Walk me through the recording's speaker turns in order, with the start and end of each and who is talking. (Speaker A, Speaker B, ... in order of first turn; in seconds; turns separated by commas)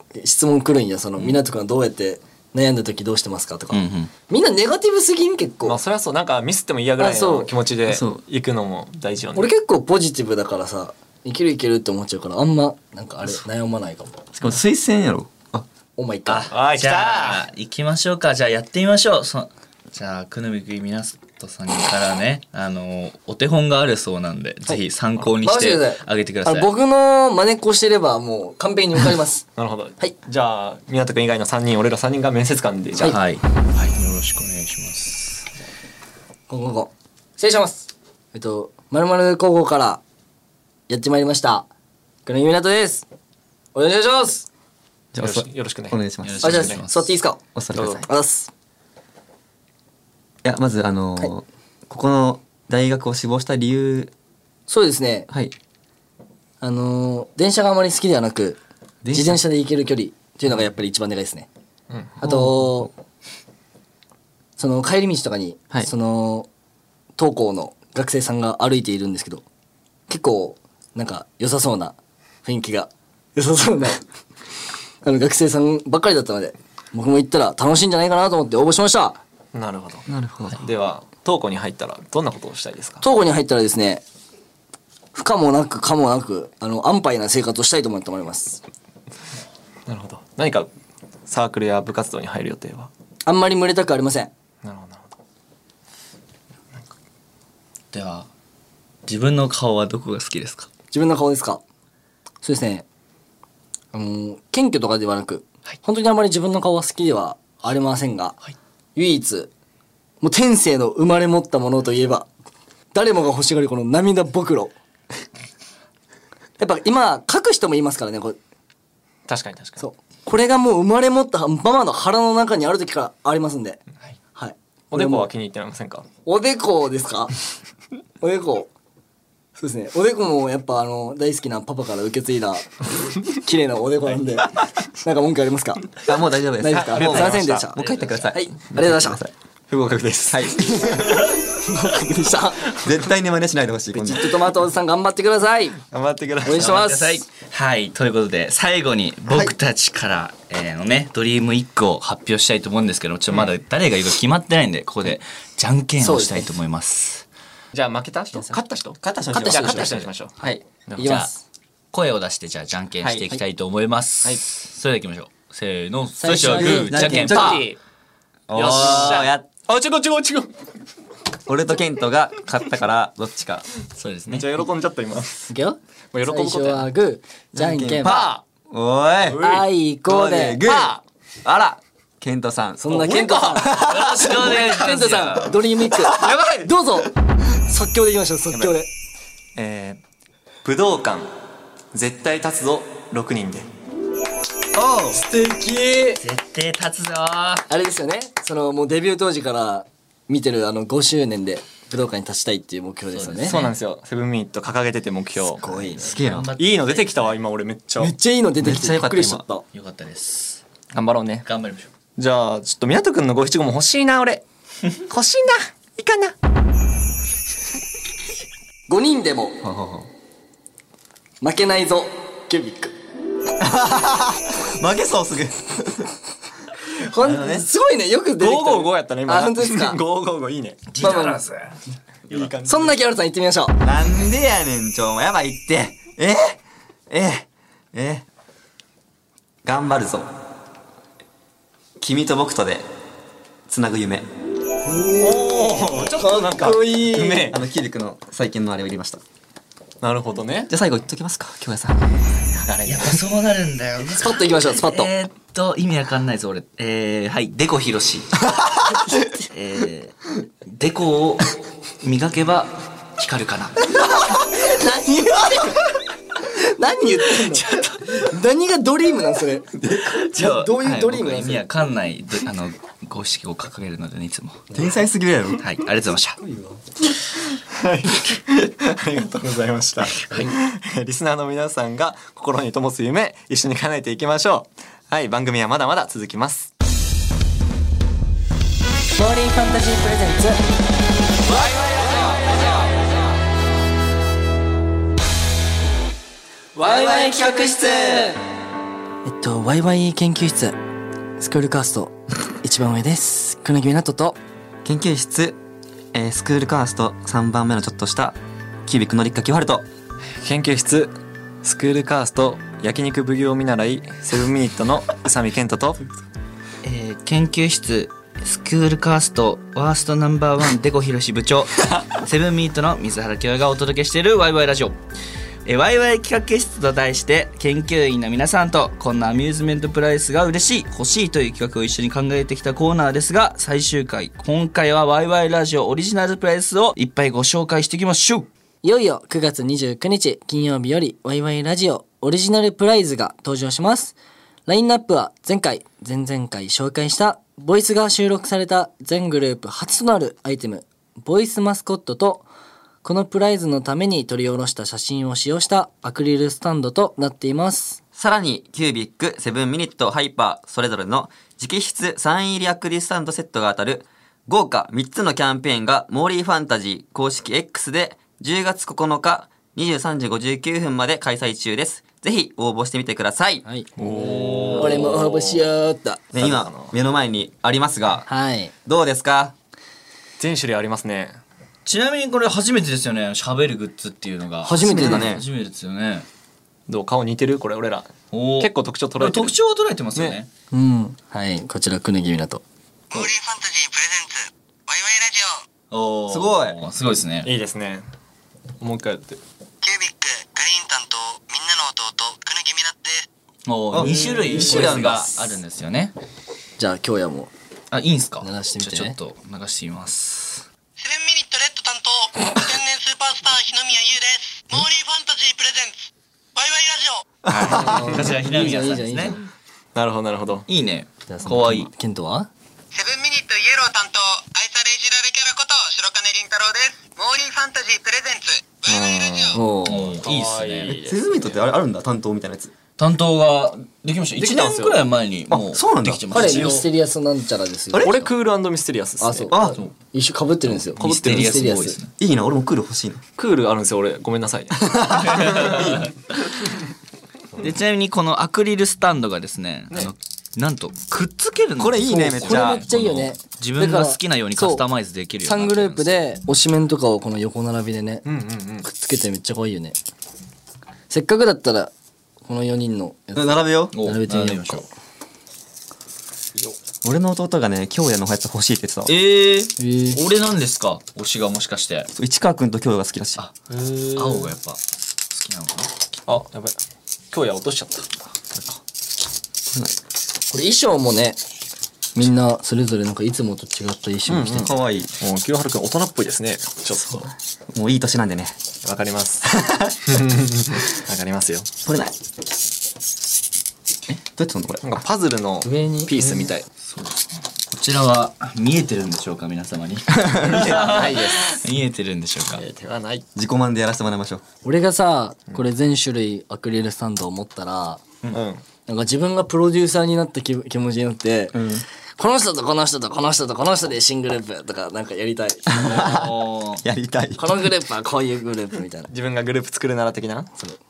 Speaker A: 0.1-5.8, Speaker B: 3.7-4.1, Speaker C: 5.7-9.5, Speaker A: 7.0-7.5, Speaker D: 7.9-8.2, Speaker A: 9.3-14.2, Speaker D: 14.4-15.7, Speaker A: 16.0-16.5, Speaker B: 16.3-26.7, Speaker C: 16.5-17.4, Speaker A: 25.4-29.4, Speaker C: 29.6-33.2, Speaker B: 33.0-35.5, Speaker A: 36.5-40.0, Speaker A: 40.9-41.7, Speaker A: 42.3-43.0, Speaker A: 43.8-44.5, Speaker D: 45.1-46.6, Speaker C: 45.2-46.8, Speaker B: 46.2-47.1, Speaker A: 46.4-47.4, Speaker D: 47.5-48.0, Speaker C: 47.8-48.0, Speaker A: 48.1-48.5, Speaker D: 50.4-54.1, Speaker A: 54.7-55.3, Speaker D: 55.3-55.5, Speaker A: 56.6-58.6, Speaker D: 59.0-59.4, Speaker A: 59.1-61.5, Speaker C: 61.9-62.2, Speaker A: 62.2-62.9, Speaker D: 62.2-62.9, Speaker A: 64.6-66.5, Speaker A: 67.2-69.5, Speaker A: 70.1-74.0, Speaker A: 75.0-79.2, Speaker C: 79.5-83.0, Speaker D: 80.1-80.6, Speaker A: 83.0-84.0, Speaker A: 85.1-88.6, Speaker C: 89.9-90.7, Speaker C: 91.3-92.9, Speaker A: 93.3-94.3, Speaker C: 94.6-95.1, Speaker B: 97.9-98.3, Speaker B: 99.1-100.7, Speaker A: 100.9-101.6, Speaker A: 102.4-102.8, Speaker A: 103.9-108.4, Speaker A: 109.0-109.5, Speaker A: 110.2-112.3, Speaker A: 112.9-114.7, Speaker A: 116.6-118.4, Speaker C: 119.3-119.8, Speaker A: 119.8-123.8, Speaker A: 124.3-125.3, Speaker C: 124.9-126.1, Speaker A: 126.3-127.3, Speaker A: 128.2-128.7, Speaker A: 129.6-136.0, Speaker D: 136.1-139.3, Speaker A: 136.6-139.2, Speaker C: 136.7-137.6, Speaker B: 137.8-138.2, Speaker C: 139.7-140.6, Speaker D: 140.3-141.2, Speaker A: 141.6-142.7, Speaker D: 142.7-144.4, Speaker A: 143.9-145.8, Speaker C: 145.9-146.8, Speaker A: 146.4-147.2, Speaker B: 146.5-157.2, Speaker D: 149.3-149.5, Speaker A: 156.0-156.5, Speaker C: 157.7-160.4, Speaker D: 159.0-160.6, Speaker A: 159.3-161.4, Speaker C: 160.9-161.2, Speaker B: 161.0-161.3, Speaker B: 161.9-167.7, Speaker D: 163.0-163.3, Speaker A: 166.2-167.6, Speaker D: 166.9-167.7, Speaker C: 166.9-167.8, Speaker D: 168.5-169.5, Speaker C: 168.5-170.5, Speaker B: 168.7-169.2, Speaker D: 171.5-173.7, Speaker B: 174.0-174.7, Speaker C: 174.3-175.5, Speaker A: 175.5-178.2, Speaker C: 176.1-176.9, Speaker D: 177.5-183.2, Speaker C: 178.0-178.4, Speaker A: 179.3-180.6, Speaker C: 180.6-181.0, Speaker A: 182.8-187.1, Speaker C: 182.9-184.4, Speaker B: 183.6-185.5, Speaker C: 186.1-186.7, Speaker A: 187.6-188.9, Speaker C: 189.6-190.0, Speaker C: 190.6-191.3, Speaker C: 191.9-193.7, Speaker D: 194.7-195.2, Speaker A: 195.2-196.2, Speaker B: 196.2-197.7, Speaker A: 197.7-203.6, Speaker B: 203.1-203.8, Speaker C: 203.5-205.6, Speaker A: 205.6-206.1, Speaker B: 205.6-207.4, Speaker D: 206.0-206.5, Speaker C: 206.6-208.1, Speaker A: 208.0-209.6, Speaker D: 208.6-209.4, Speaker B: 209.7-210.6, Speaker C: 210.9-211.5, Speaker B: 211.4-211.9, Speaker C: 212.2-214.4, Speaker C: 215.1-216.3, Speaker A: 218.9-219.6, Speaker D: 219.6-220.1, Speaker A: 221.4-222.9, Speaker D: 223.6-226.1, Speaker A: 226.9-230.0, Speaker D: 227.2-227.7, Speaker C: 228.4-230.9, Speaker B: 230.9-231.8, Speaker A: 231.0-231.4, Speaker C: 232.3-233.0, Speaker A: 232.6-233.8, Speaker D: 233.8-238.2, Speaker D: 239.6-240.3, Speaker D: 242.0-242.8, Speaker D: 243.7-244.3, Speaker A: 244.9-245.6, Speaker C: 245.1-247.6, Speaker A: 246.2-247.5, Speaker D: 246.8-249.2, Speaker C: 250.0-250.7, Speaker D: 250.7-252.0, Speaker C: 252.5-253.2, Speaker B: 252.8-258.4, Speaker A: 254.2-255.1, Speaker B: 259.5-263.9, Speaker A: 264.3-265.8, Speaker A: 266.5-269.7, Speaker B: 267.5-268.3, Speaker D: 269.8-270.1, Speaker B: 269.8-274.6, Speaker A: 270.3-271.7, Speaker D: 274.7-275.7, Speaker B: 275.6-276.4, Speaker A: 276.4-276.8, Speaker C: 277.7-286.7, Speaker B: 280.3-280.5, Speaker A: 289.2-290.6, Speaker D: 296.8-298.4, Speaker A: 296.8-297.8, Speaker A: 299.2-300.8, Speaker A: 301.4-304.4, Speaker D: 304.8-305.6, Speaker D: 306.1-309.9, Speaker C: 310.4-316.1, Speaker B: 316.8-325.0, Speaker B: 325.6-338.5, Speaker A: 338.8-344.1, Speaker A: 344.7-352.5, Speaker A: 353.0-358.0, Speaker D: 358.2-373.6, Speaker A: 373.6-376.2, Speaker C: 374.0-375.1, Speaker B: 374.0-375.6, Speaker D: 376.3-378.3, Speaker C: 376.4-376.9, Speaker A: 378.3-378.7, Speaker D: 378.9-379.5, Speaker C: 380.4-381.4, Speaker B: 381.9-386.3, Speaker A: 384.6-385.3, Speaker D: 384.8-385.4, Speaker C: 386.9-389.5, Speaker B: 388.3-390.5, Speaker A: 390.7-392.6, Speaker E: 393.1-394.3, Speaker E: 394.9-395.5, Speaker B: 395.9-397.5, Speaker D: 396.3-396.8, Speaker C: 397.4-398.1, Speaker C: 398.8-399.4, Speaker E: 399.9-403.1, Speaker B: 403.6-406.1, Speaker D: 403.9-405.4, Speaker A: 406.8-407.5, Speaker B: 407.9-410.7, Speaker A: 408.4-409.2, Speaker E: 411.0-415.9, Speaker E: 416.6-417.2, Speaker C: 417.5-418.3, Speaker B: 417.5-419.4, Speaker A: 417.8-419.4, Speaker C: 419.9-420.7, Speaker B: 420.7-421.9, Speaker A: 421.3-422.5, Speaker E: 422.9-428.5, Speaker C: 428.9-431.6, Speaker A: 429.5-430.0, Speaker B: 429.8-431.0, Speaker D: 430.9-432.7, Speaker B: 433.0-436.9, Speaker C: 434.4-435.0, Speaker D: 435.5-436.7, Speaker A: 436.3-438.3, Speaker D: 437.9-438.2, Speaker C: 438.0-439.6, Speaker A: 439.2-442.0, Speaker D: 439.5-439.8, Speaker B: 440.9-442.1, Speaker C: 441.0-441.6, Speaker D: 442.2-443.2, Speaker C: 443.4-446.3, Speaker D: 444.8-445.9, Speaker B: 445.4-445.8, Speaker B: 447.6-456.2, Speaker D: 451.8-452.8, Speaker C: 451.9-452.3, Speaker A: 452.1-454.8, Speaker A: 455.4-458.2, Speaker C: 458.2-458.9, Speaker A: 458.8-460.0, Speaker A: 461.1-461.9, Speaker A: 462.5-464.9, Speaker D: 463.4-463.9, Speaker B: 463.9-464.9, Speaker D: 467.0-469.1, Speaker B: 469.1-472.1, Speaker A: 469.8-470.2, Speaker D: 472.2-473.4, Speaker C: 473.7-474.5, Speaker B: 474.1-475.9, Speaker C: 476.3-476.8, Speaker C: 477.3-478.3, Speaker D: 478.5-478.8, Speaker D: 479.7-479.9, Speaker A: 480.5-481.4, Speaker A: 482.1-484.7, Speaker C: 484.3-487.1, Speaker D: 484.6-485.1, Speaker D: 487.7-488.6, Speaker C: 488.8-491.7, Speaker D: 489.4-490.0, Speaker D: 491.8-492.2, Speaker D: 494.3-494.8, Speaker C: 494.8-496.7, Speaker A: 495.6-496.5, Speaker B: 496.8-502.6, Speaker C: 500.4-501.6, Speaker C: 502.5-503.3, Speaker D: 503.4-504.4, Speaker A: 504.6-508.0, Speaker C: 508.3-508.6, Speaker A: 508.9-511.6, Speaker D: 511.5-511.9, Speaker A: 512.2-516.2, Speaker D: 515.7-517.7, Speaker B: 515.8-516.8, Speaker A: 517.4-519.1, Speaker C: 519.1-520.5